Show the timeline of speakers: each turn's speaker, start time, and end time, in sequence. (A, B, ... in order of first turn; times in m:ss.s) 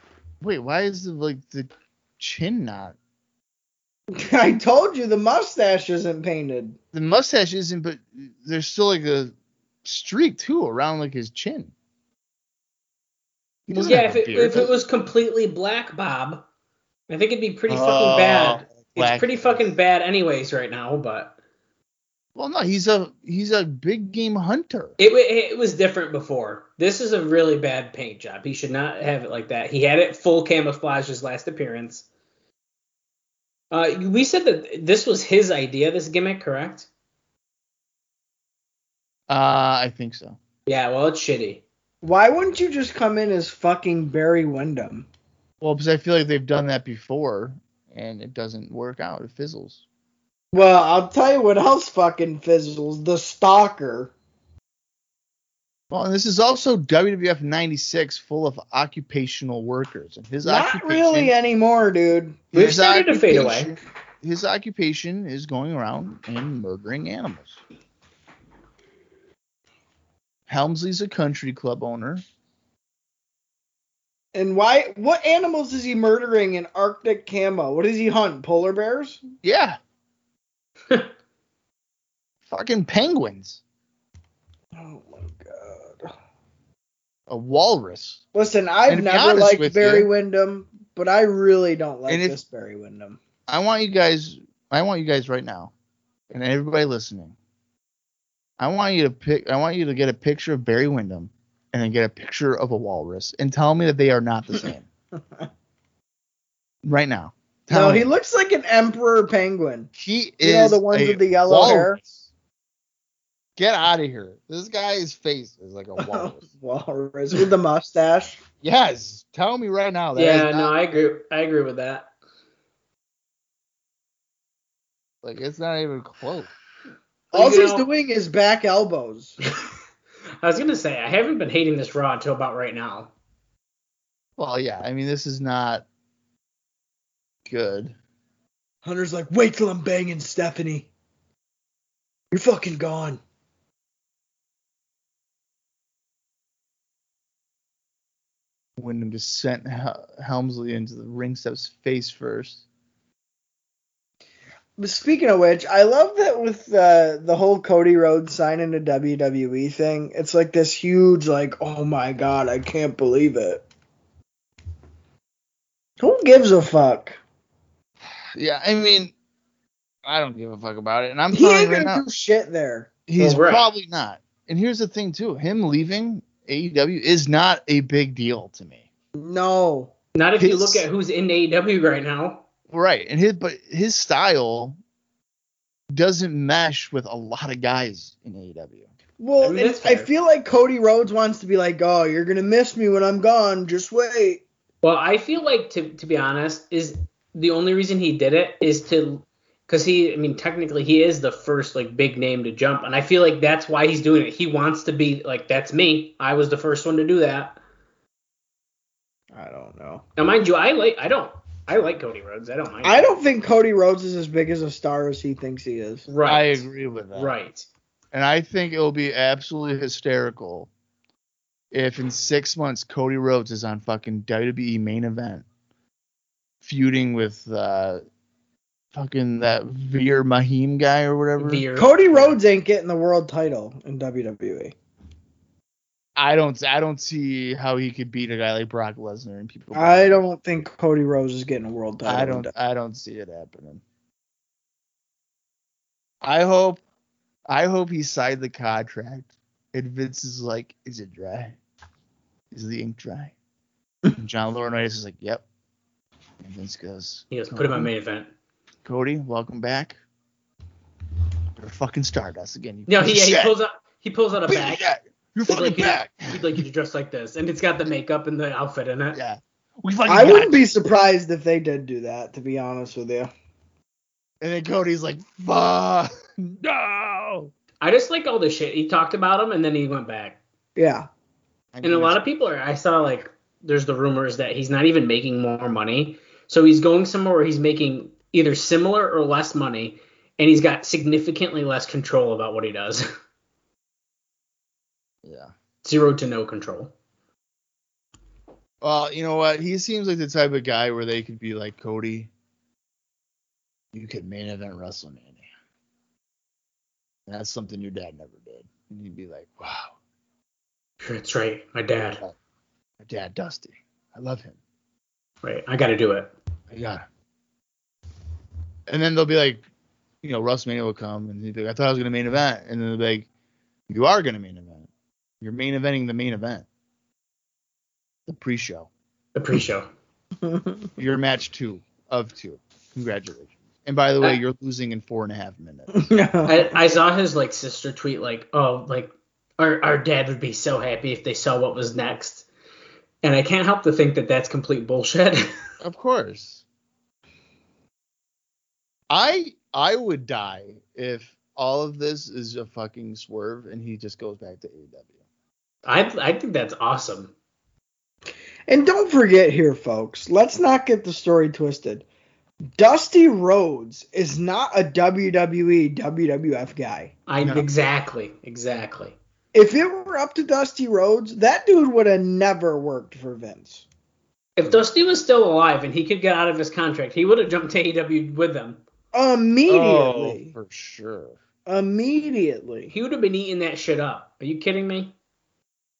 0:00.4-0:03.0 A
0:04.1-0:06.8 B
0:06.9-0:11.7 A
0:13.7-0:14.7 A
0:13.7-0:16.4 C
0:17.1-0:21.4 C
0:17.7-0:19.7 A
0:22.3-0:25.0 A
0:25.0-0:32.0 C
0:33.7-0:36.9 C
0:39.3-0:40.4 A
0:40.6-0:41.6 C
0:42.0-0:45.1 B
0:45.6-0:49.8 A
0:50.5-0:54.1 B
0:55.9-1:01.3 A
1:00.4-1:02.5 B
1:02.5-1:07.6 A
1:02.5-1:03.7 C
1:10.5-1:12.2 A
1:14.3-1:19.2 B
1:19.4-1:19.8 A
1:22.4-1:23.6 A
1:24.7-1:26.1 B
1:27.3-1:28.2 A
1:28.3-1:33.2 B
1:28.9-1:30.1 A
1:32.1-1:32.4 A
1:33.5-1:35.7 A
1:36.3-1:37.3 A
1:38.6-1:44.9 A
1:46.8-1:48.1 A
1:47.7-1:49.9 B
1:50.0-1:52.3 A
1:50.4-1:52.0 B
1:53.6-1:56.4 A
1:56.0-1:58.4 B
1:58.6-2:00.8 A
2:00.1-2:02.1 C
2:05.2-2:06.5 A
2:07.3-2:07.8 C
2:07.3-2:09.4 B
2:10.4-2:13.1 C
2:14.4-2:15.8 A
2:17.4-2:18.0 A
2:18.8-2:20.9 B
2:22.3-2:23.2 B
2:28.8-2:32.6 A
2:34.8-2:43.6 B
2:46.0-2:47.2 B
2:48.4-2:49.1 A
2:50.0-2:52.0 A
2:51.3-2:52.9 B
2:53.1-2:58.8 A
2:53.2-2:53.7 C
2:59.1-2:59.9 B
3:00.1-3:02.4 C
3:00.4-3:00.8 A
3:02.7-3:04.8 A
3:05.9-3:08.9 A
3:09.2-3:14.4 B
3:09.4-3:10.1 C
3:14.8-3:27.6 C
3:29.3-3:30.0 B
3:30.2-3:33.0 C
3:32.8-3:36.0 B
3:36.1-3:37.7 C
3:36.2-3:37.3 A
3:38.1-3:40.7 A
3:41.7-3:45.4 A
3:46.6-3:48.0 A
3:48.9-3:51.6 A
3:51.4-3:52.4 C
3:51.8-3:54.7 B
3:56.2-4:00.2 A
3:59.7-4:02.5 B
4:02.0-4:03.8 A
4:06.2-4:06.8 A
4:07.5-4:11.6 A
4:12.5-4:13.3 A
4:14.1-4:15.4 A
4:16.4-4:17.9 A
4:17.3-4:18.3 C
4:18.8-4:20.0 A
4:21.6-4:23.5 A
4:22.9-4:24.8 C
4:24.5-4:26.6 A
4:25.5-4:29.2 C
4:29.1-4:30.7 A
4:30.1-4:33.3 B
4:34.4-4:37.5 A
4:37.8-4:40.4 C
4:40.8-4:41.1 B
4:41.7-4:42.2 A
4:41.8-4:53.1 C
4:55.2-4:55.5 A
4:55.8-4:56.9 C
4:58.8-5:02.3 A
5:03.9-5:05.5 A
5:07.3-5:09.9 A
5:11.0-5:12.2 C
5:13.0-5:14.6 A
5:15.4-5:16.3 C
5:16.7-5:17.0 A
5:18.9-5:19.6 A
5:20.2-5:23.3 A
5:23.9-5:24.9 A
5:25.4-5:26.6 A
5:28.3-5:28.9 A
5:29.3-5:29.9 C
5:30.4-5:30.8 B
5:31.0-5:36.0 A
5:35.9-5:36.7 B
5:36.4-5:42.5 C
5:43.2-5:45.5 C
5:45.8-5:46.6 A
5:49.1-5:55.1 A
5:55.8-5:57.3 C
5:58.7-6:02.0 B
6:02.8-6:07.1 B
6:07.3-6:09.2 C
6:07.4-6:07.6 A
6:09.5-6:13.8 B
6:14.6-6:18.8 C
6:19.1-6:20.5 B
6:19.7-6:21.4 A
6:21.6-6:22.9 B
6:22.9-6:25.1 C